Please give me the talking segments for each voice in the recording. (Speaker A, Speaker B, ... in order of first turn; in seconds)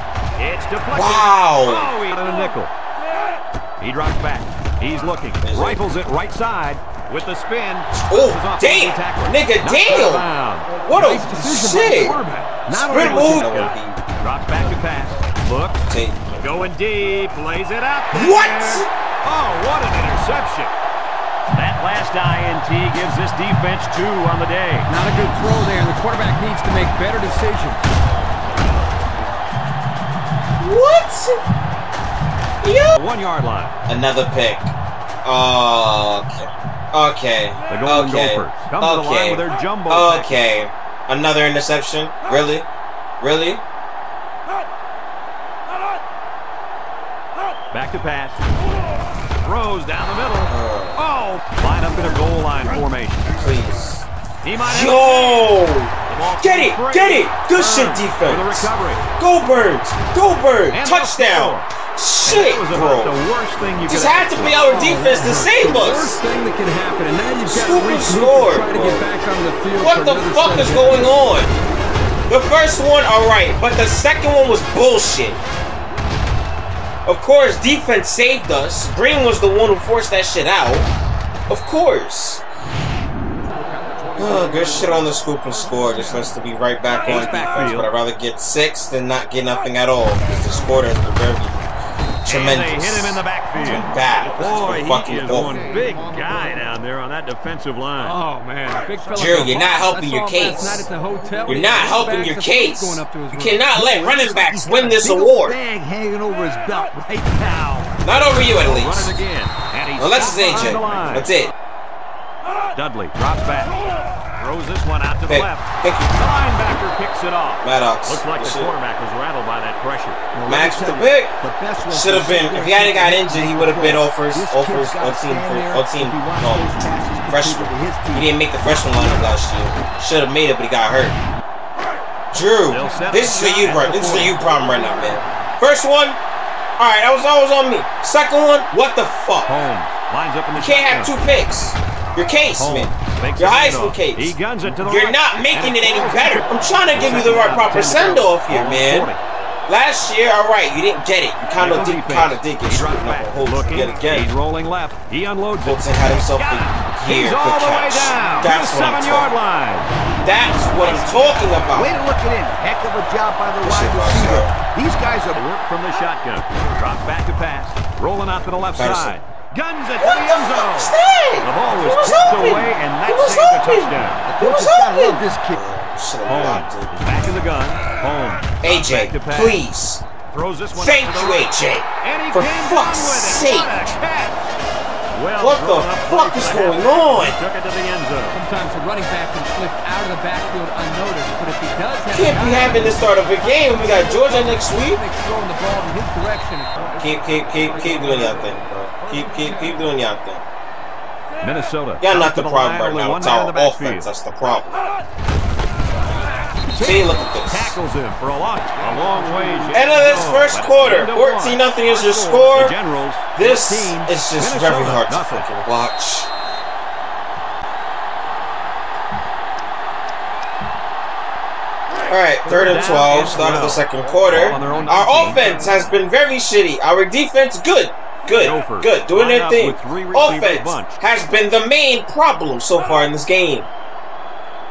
Speaker A: 0.4-2.7, 3.8-10.8, 12.6-15.9, 16.4-20.7, 21.5-24.9, 32.9-33.8, 37.7-40.4, 47.7-48.5, 49.4-53.5, 54.4-55.5, 56.1-59.1, 60.7-61.7, 62.2-64.6, 87.0-87.9, 92.2-98.2, 107.4-111.3, 112.8-120.2, 132.7-134.4, 139.4-141.2, 142.6-149.2, 151.6-159.9, 160.8-161.4, 165.3-174.2, 176.2-179.6, 180.3-184.5, 185.1-188.4, 201.4-204.1, 206.7-215.5, 222.4-225.4, 228.3-231.0
Speaker B: 0.9-1.9, 5.4-5.8, 8.0-10.2, 10.8-12.2, 12.7-14.0, 15.9-16.7, 18.1-18.9, 30.6-31.4, 32.6-33.0, 33.9-34.7, 35.2-42.7, 43.2-43.6, 50.5-51.0, 53.4-54.1, 54.6-63.1, 63.9-66.2, 67.4-69.0, 69.8-71.5, 72.3-75.4, 77.1-80.9, 81.5-82.4, 84.2-91.6, 92.2-95.6, 99.2-100.9, 101.5-105.6, 108.0-109.2, 110.0-111.5, 115.3-116.1, 117.6-118.7, 120.5-121.3, 121.9-131.2, 132.3-136.2, 136.8-139.6, 140.5-149.1, 149.7-154.3, 155.6-159.3, 160.2-161.9, 163.6-164.5, 168.7-169.2, 170.0-176.9, 178.6-180.0, 180.7-183.8, 185.4-187.4, 192.1-195.0, 197.0-200.4, 202.0-204.8, 206.8-207.8, 209.7-212.8, 213.3-216.3, 222.1-233.7
Speaker C: 10.9-13.1, 24.9-27.9, 64.7-71.1, 98.0-103.6, 188.3-197.0
Speaker D: 103.7-107.7, 120.3-128.3, 161.7-165.4, 174.3-175.6